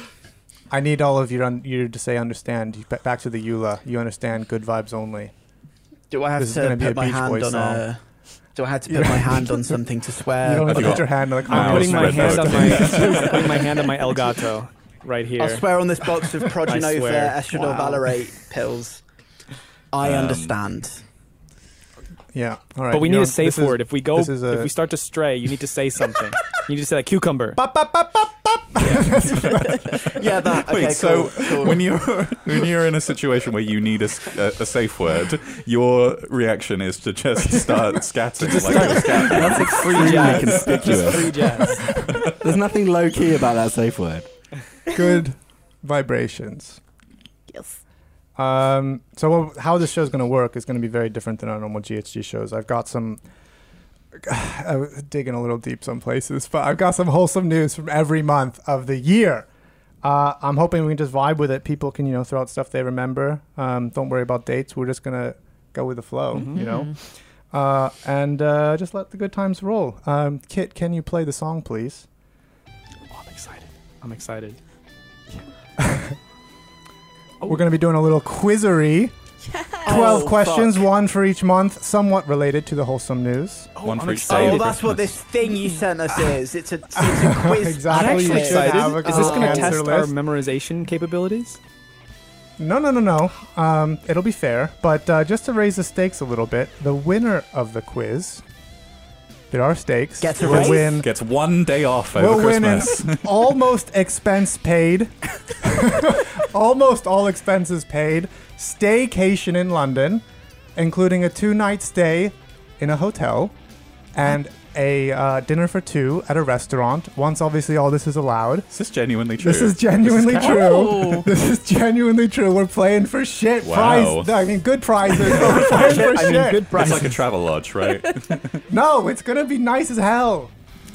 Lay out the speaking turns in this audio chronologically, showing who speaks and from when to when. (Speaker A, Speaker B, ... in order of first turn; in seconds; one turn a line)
Speaker A: 0.7-5.3
Speaker B: 6.1-8.0
Speaker A: 6.4-7.8
Speaker B: 8.6-11.1
Speaker A: 8.9-9.8
Speaker A: 10.4-13.6
Speaker C: 10.6-13.6
Speaker D: 11.5-15.7
Speaker B: 15.4-19.0
Speaker D: 16.6-17.4
Speaker E: 17.5-18.0
Speaker B: 19.9-21.0
Speaker C: 20.0-20.6
Speaker A: 22.3-24.7
Speaker D: 22.9-27.6
Speaker A: 27.5-30.2
Speaker D: 28.8-29.1
Speaker C: 29.3-41.0
Speaker B: 30.0-31.9
Speaker D: 38.4-41.9
Speaker F: 39.3-44.3
Speaker C: 42.0-42.2
Speaker A: 44.9-46.8
Speaker E: 47.5-47.8
Speaker A: 48.4-53.2
Speaker A: 54.1-59.5
Speaker A: 60.0-72.1
Speaker E: 66.5-67.0
Speaker D: 73.1-74.6
Speaker A: 75.4-76.2
Speaker A: 77.4-79.1
Speaker E: 79.5-80.2
Speaker B: 79.8-80.8
Speaker A: 79.8-83.7
Speaker D: 83.8-84.8
Speaker C: 83.8-85.1
Speaker B: 84.3-89.8
Speaker A: 86.9-90.1
Speaker D: 87.9-91.6
Speaker A: 92.6-98.4
Speaker A: 99.5-101.1
Speaker B: 100.2-101.0
Speaker C: 100.4-103.3
Speaker A: 102.1-110.2
Speaker A: 110.8-113.5
Speaker A: 114.1-118.7
Speaker C: 118.7-121.0
Speaker A: 119.4-127.0
Speaker E: 120.5-121.2
Speaker C: 123.6-124.5
Speaker C: 125.2-125.8
Speaker D: 125.4-127.2
Speaker C: 126.7-128.6
Speaker A: 128.7-130.5